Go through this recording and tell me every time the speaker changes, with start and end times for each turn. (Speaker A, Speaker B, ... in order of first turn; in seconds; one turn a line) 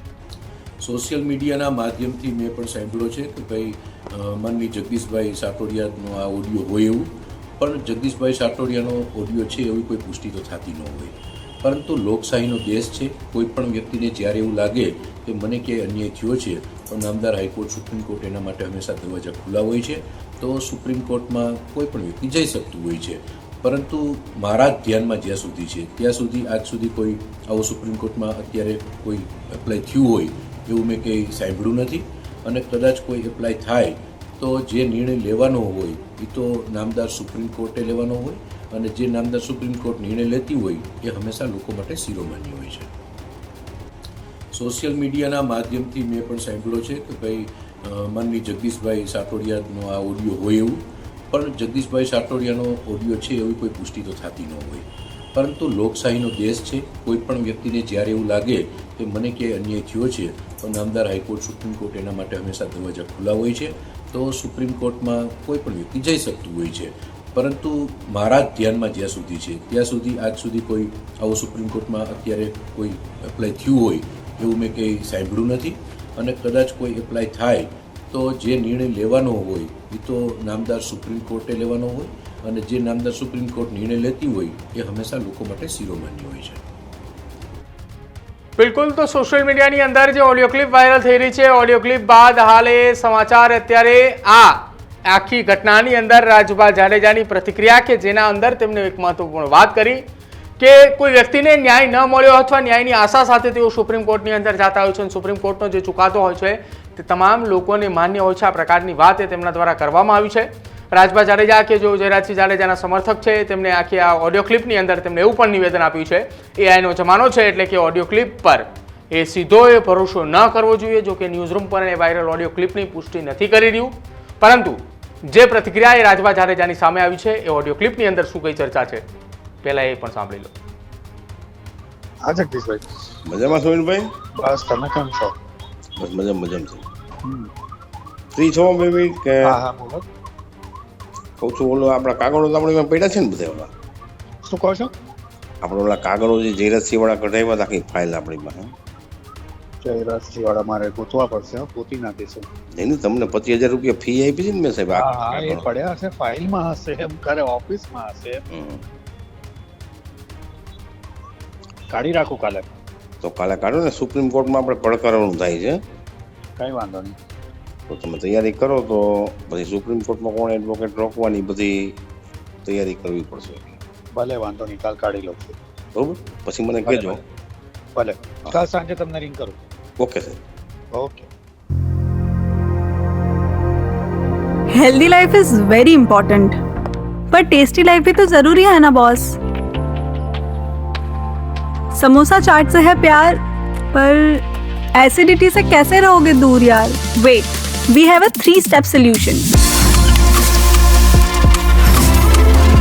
Speaker A: 0.8-42.9
Speaker A: 44.5-86.6
Speaker B: 88.6-100.0
Speaker B: 100.6-129.0
Speaker B: 129.6-130.5
Speaker C: 132.2-132.9
Speaker D: 133.3-134.1
Speaker C: 134.4-135.3
Speaker D: 136.0-136.9
Speaker D: 138.3-139.6
Speaker C: 139.4-140.0
Speaker D: 141.4-143.7
Speaker C: 144.4-144.9
Speaker D: 145.6-148.7
Speaker C: 149.8-152.5
Speaker D: 152.8-155.7
Speaker C: 154.9-158.4
Speaker D: 158.5-158.8
Speaker C: 161.9-162.7
Speaker D: 163.2-165.8
Speaker C: 166.6-167.2
Speaker D: 167.9-172.0
Speaker D: 172.7-173.8
Speaker C: 174.2-175.6
Speaker D: 175.9-177.2
Speaker C: 176.9-177.2
Speaker C: 177.9-179.6
Speaker D: 180.0-180.4
Speaker C: 180.9-181.3
Speaker E: 184.7-186.6
Speaker E: 187.3-189.4
Speaker E: 191.9-193.4
Speaker E: 193.9-194.4
Speaker E: 194.9-199.5